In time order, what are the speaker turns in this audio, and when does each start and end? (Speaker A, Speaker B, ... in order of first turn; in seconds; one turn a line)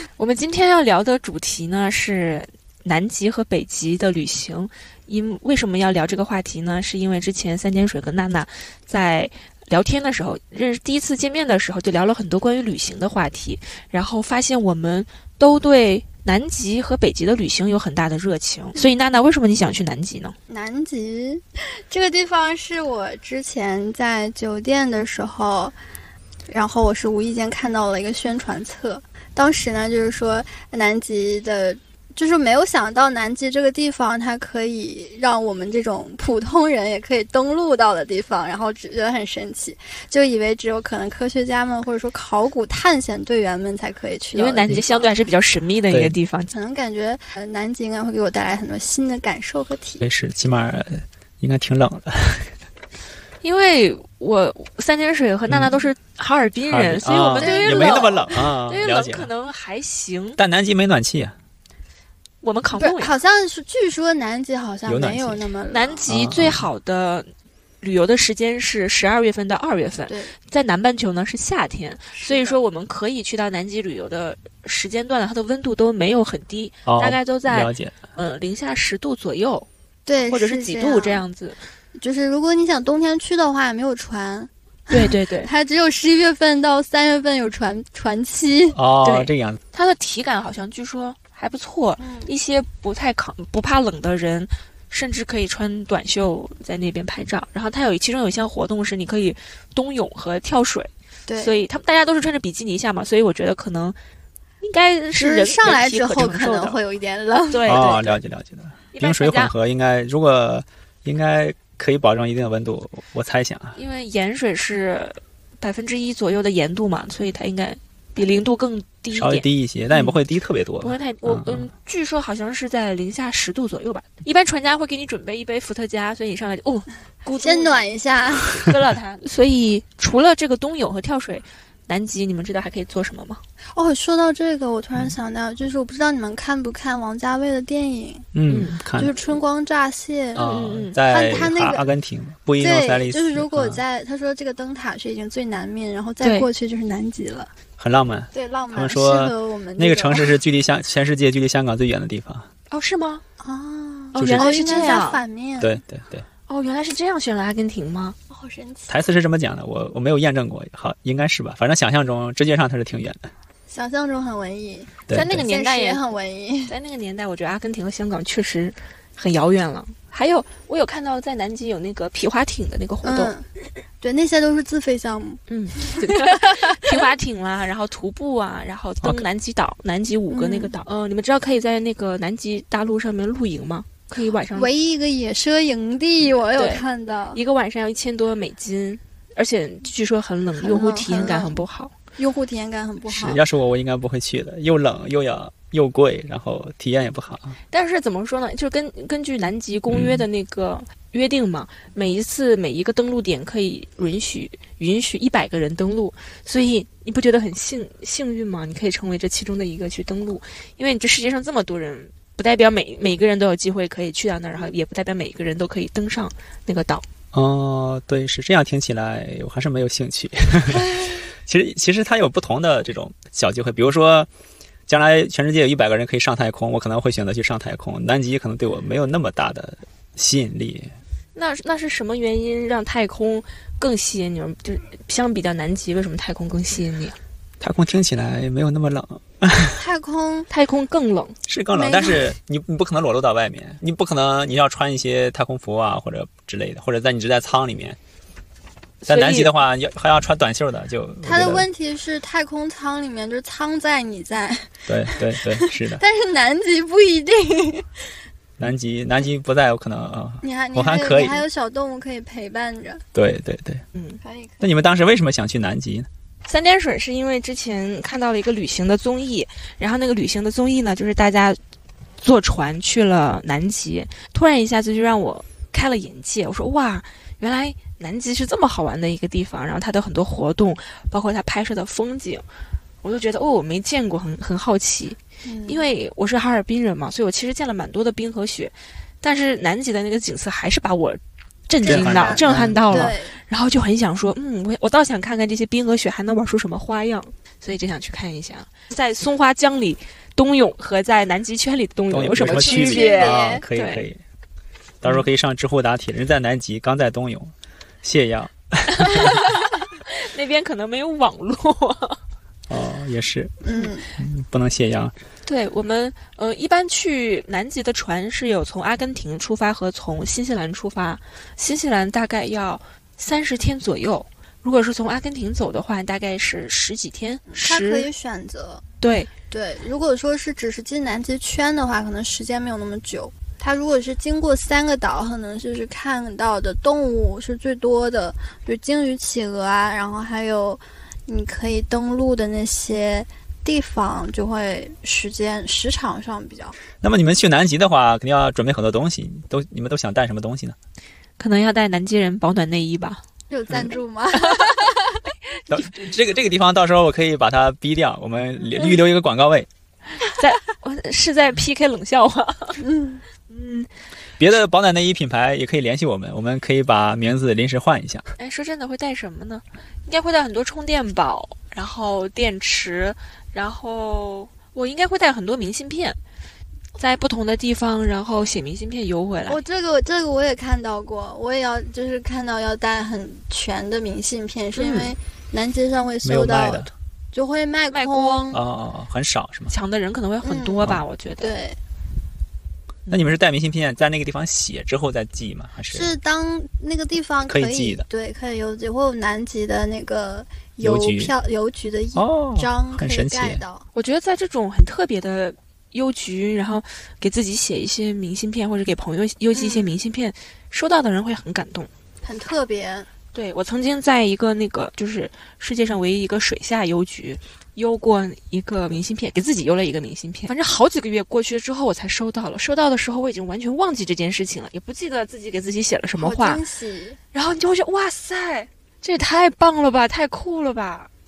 Speaker A: 0.2-20.4
Speaker B: 20.5-25.8
Speaker B: 26.5-45.1
Speaker A: 44.3-46.5
Speaker B: 46.5-50.0
Speaker C: 50.0-52.5
Speaker A: 53.4-60.4
Speaker C: 56.7-59.3
Speaker B: 57.4-58.2
Speaker C: 60.4-61.3
Speaker A: 62.4-63.1
Speaker B: 62.8-66.0
Speaker C: 64.8-65.4
Speaker A: 65.7-67.3
Speaker C: 66.1-66.6
Speaker A: 67.8-79.7
Speaker B: 70.1-70.3
Speaker B: 72.2-72.6
Speaker C: 76.8-77.9
Speaker B: 80.0-81.2
Speaker A: 80.3-81.6
Speaker B: 82.0-88.8
Speaker A: 84.9-85.5
Speaker C: 88.7-89.6
Speaker A: 89.0-104.0
Speaker B: 92.0-92.3
Speaker B: 101.3-101.6
Speaker A: 104.6-106.8
Speaker B: 105.2-108.0
Speaker A: 107.5-108.2
Speaker C: 107.7-113.8
Speaker A: 108.9-109.5
Speaker A: 113.8-120.2
Speaker C: 119.1-121.7
Speaker A: 120.8-127.8
Speaker B: 127.3-128.6
Speaker A: 128.5-133.4
Speaker B: 133.7-138.3
Speaker C: 138.3-139.2
Speaker A: 138.5-138.7
Speaker B: 139.0-141.9
Speaker A: 140.3-141.0
Speaker C: 140.3-143.8
Speaker B: 142.6-147.5
Speaker A: 146.2-146.5
Speaker C: 147.8-152.5
Speaker B: 148.3-150.4
Speaker A: 152.7-153.2
Speaker B: 153.4-155.8
Speaker A: 154.1-155.2
Speaker C: 154.2-154.4
Speaker C: 155.6-156.2
Speaker A: 156.5-158.2
Speaker B: 158.3-158.9
Speaker C: 158.9-163.3
Speaker B: 163.7-166.7
Speaker C: 165.1-165.4
Speaker A: 165.1-166.1
Speaker A: 166.7-173.3
Speaker B: 173.0-173.5
Speaker B: 174.0-176.9
Speaker A: 175.5-184.7
Speaker B: 180.3-180.7
Speaker B: 184.5-187.4
Speaker A: 186.5-191.9
Speaker B: 190.6-191.6
Speaker B: 192.2-193.4
Speaker C: 193.1-197.5
Speaker A: 197.7-217.0
Speaker C: 199.9-200.2
Speaker C: 217.3-224.3
Speaker C: 224.9-230.9
Speaker A: 231.3-237.2
Speaker C: 237.6-239.8
Speaker B: 239.7-240.5
Speaker A: 240.5-241.4
Speaker C: 241.5-248.0
Speaker B: 241.7-242.3
Speaker A: 249.0-249.5
Speaker C: 249.0-251.7
Speaker B: 251.2-258.0
Speaker C: 254.9-256.0
Speaker C: 258.6-261.4
Speaker B: 260.4-263.0
Speaker C: 263.1-263.8
Speaker A: 263.9-264.2
Speaker B: 264.2-264.7
Speaker C: 264.6-266.1
Speaker A: 266.5-271.6
Speaker A: 272.2-282.4
Speaker A: 283.0-304.1
Speaker B: 285.4-285.9
Speaker B: 291.8-293.4
Speaker C: 291.9-293.1
Speaker C: 302.1-304.2
Speaker B: 302.4-303.6
Speaker C: 305.0-309.4
Speaker A: 308.9-312.2
Speaker C: 312.7-313.6
Speaker B: 313.6-314.1
Speaker C: 314.2-315.1
Speaker A: 315.4-328.1
Speaker B: 327.5-328.8
Speaker A: 329.0-329.3
Speaker B: 329.5-346.7
Speaker C: 347.0-350.8
Speaker A: 351.4-353.2
Speaker B: 353.5-355.2
Speaker A: 354.4-354.8
Speaker C: 355.7-359.7
Speaker A: 360.2-362.8
Speaker B: 362.8-363.2
Speaker A: 363.5-363.9
Speaker C: 364.4-368.3
Speaker A: 368.4-376.2
Speaker A: 377.0-379.6
Speaker B: 379.5-388.6
Speaker A: 384.8-385.1
Speaker C: 386.2-386.9
Speaker A: 387.9-388.6
Speaker C: 388.5-389.7
Speaker A: 389.7-391.5
Speaker B: 390.4-391.8
Speaker C: 393.1-396.1
Speaker B: 395.9-403.9
Speaker C: 397.5-398.0
Speaker C: 400.8-401.3
Speaker C: 402.1-403.6
Speaker A: 403.9-411.9
Speaker B: 409.5-410.0
Speaker B: 412.2-413.1
Speaker A: 413.3-426.6
Speaker B: 426.2-427.2
Speaker A: 427.3-431.1